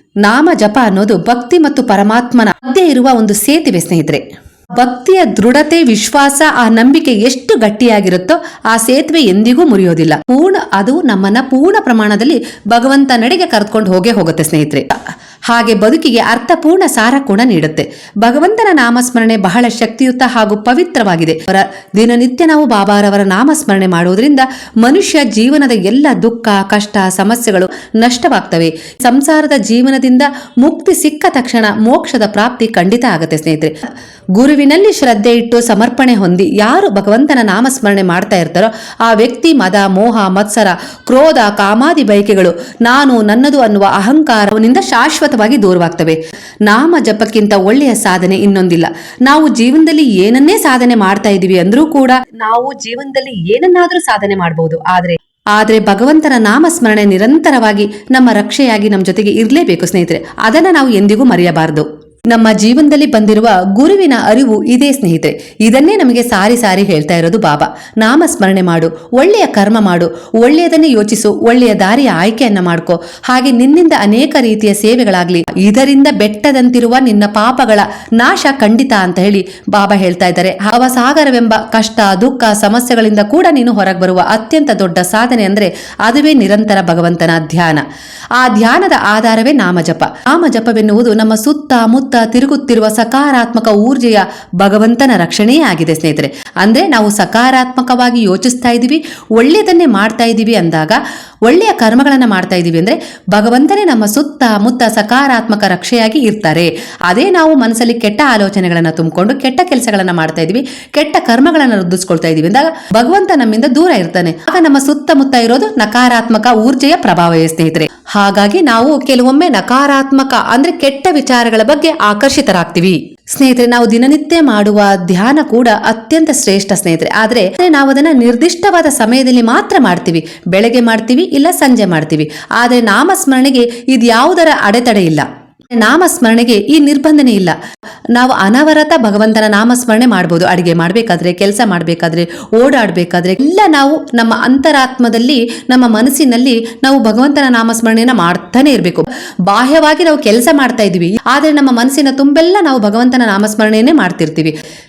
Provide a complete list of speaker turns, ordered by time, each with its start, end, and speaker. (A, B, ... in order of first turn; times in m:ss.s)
0:00.2-0:04.2 A
0:04.7-0:33.8 A
0:34.4-2:17.6 A
2:18.2-2:34.6 A